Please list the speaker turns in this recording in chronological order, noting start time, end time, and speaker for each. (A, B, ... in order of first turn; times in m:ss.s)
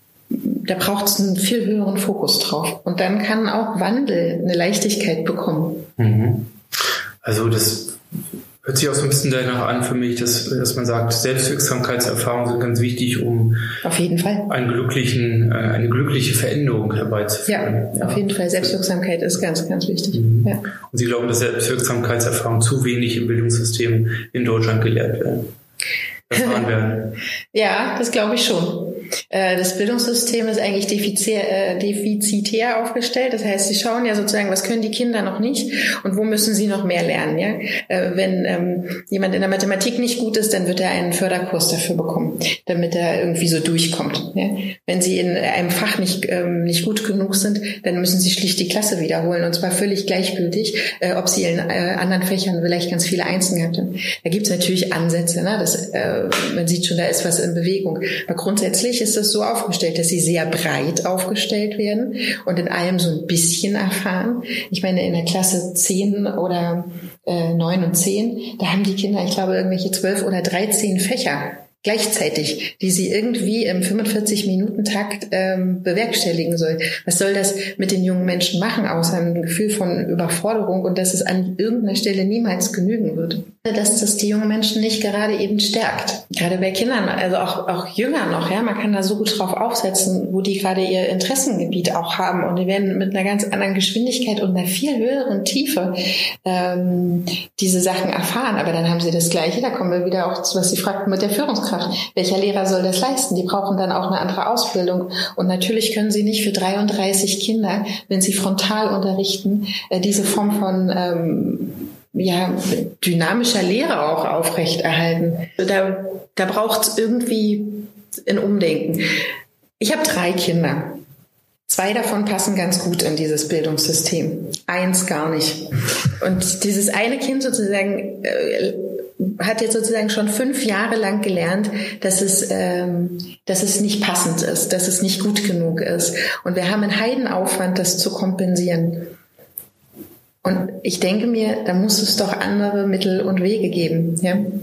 0:00.3-0:05.9 A
0:06.0-0:06.5 B
0:07.2-0:08.0 B
0:08.6-0:13.7 B
0:13.8-0:14.5 A
0:14.5-0:18.2 B
0:17.4-0:20.6 A
0:20.1-0:25.5 B
0:26.3-0:27.2 B
0:26.4-0:26.6 A
0:27.5-1:59.1 A
1:59.8-2:01.0 A
2:01.7-2:05.6 A
2:06.2-2:19.1 A
2:20.4-2:24.4 A